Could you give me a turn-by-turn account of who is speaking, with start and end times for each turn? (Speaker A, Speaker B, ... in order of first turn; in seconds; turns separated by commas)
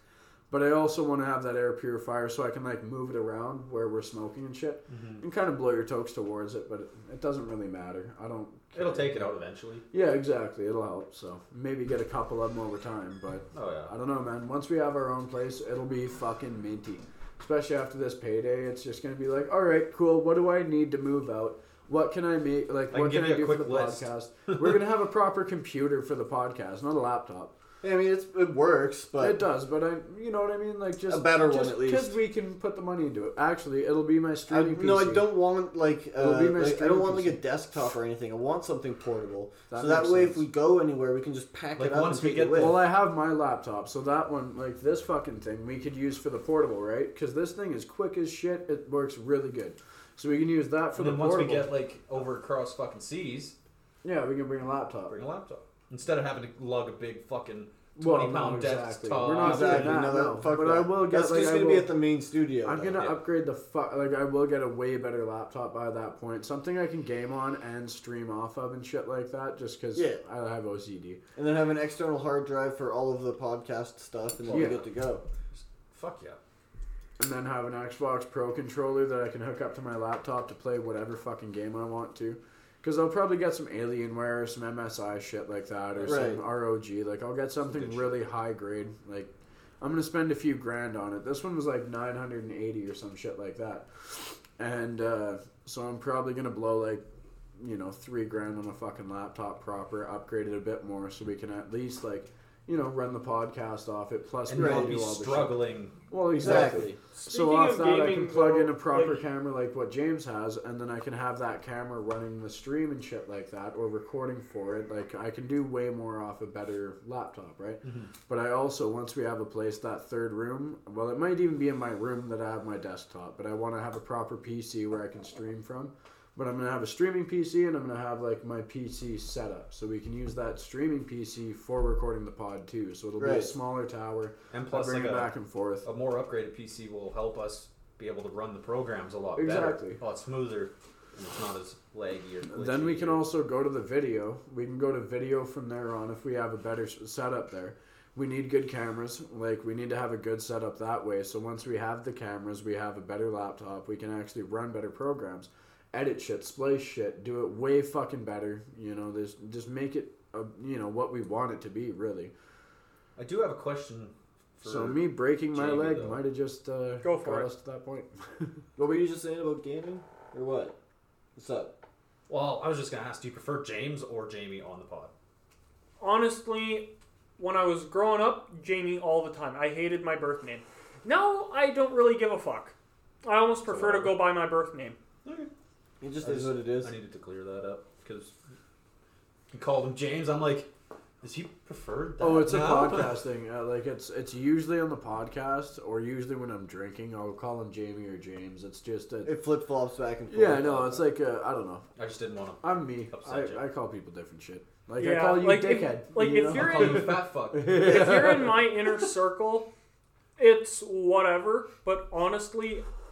Speaker A: 0.5-9.3, Speaker B: 4.9-5.2, Speaker B: 8.8-9.8, Speaker A: 9.9-27.5, Speaker B: 13.5-13.9, Speaker B: 22.9-24.7, Speaker C: 27.8-29.4, Speaker A: 29.2-35.3, Speaker C: 31.1-32.1, Speaker C: 34.5-42.8, Speaker A: 36.2-37.4, Speaker A: 39.7-40.4, Speaker B: 41.8-42.8, Speaker A: 42.6-51.7, Speaker B: 51.0-53.5, Speaker A: 54.0-55.2, Speaker B: 55.1-60.1, Speaker A: 58.0-61.9, Speaker C: 59.4-63.0, Speaker A: 62.6-71.2, Speaker C: 70.0-70.2, Speaker C: 71.4-75.2, Speaker B: 74.5-74.8, Speaker A: 74.5-74.8, Speaker B: 75.5-76.4, Speaker A: 77.2-89.3, Speaker B: 86.0-86.3, Speaker C: 86.0-86.4, Speaker B: 87.6-88.2, Speaker A: 89.8-97.0, Speaker A: 97.6-135.9, Speaker B: 104.5-106.7, Speaker C: 104.6-104.9, Speaker C: 106.4-107.0, Speaker D: 107.1-109.2, Speaker B: 117.8-118.1, Speaker C: 133.2-133.5, Speaker B: 134.5-135.3, Speaker B: 135.8-143.2, Speaker A: 139.4-140.0, Speaker A: 142.5-162.3, Speaker B: 163.2-166.2, Speaker A: 164.6-168.5, Speaker D: 167.0-167.5, Speaker C: 168.8-170.8, Speaker C: 171.4-171.7, Speaker B: 172.3-175.1, Speaker D: 176.0-185.0, Speaker B: 183.7-184.2, Speaker C: 186.0-186.9, Speaker B: 186.2-188.3, Speaker B: 189.5-190.7, Speaker B: 191.2-193.2, Speaker A: 192.2-199.4, Speaker C: 199.2-201.0, Speaker A: 200.3-201.9, Speaker B: 202.0-203.6, Speaker A: 202.6-208.7, Speaker D: 205.0-207.2, Speaker B: 206.5-207.8, Speaker D: 207.7-209.7, Speaker D: 210.4-212.8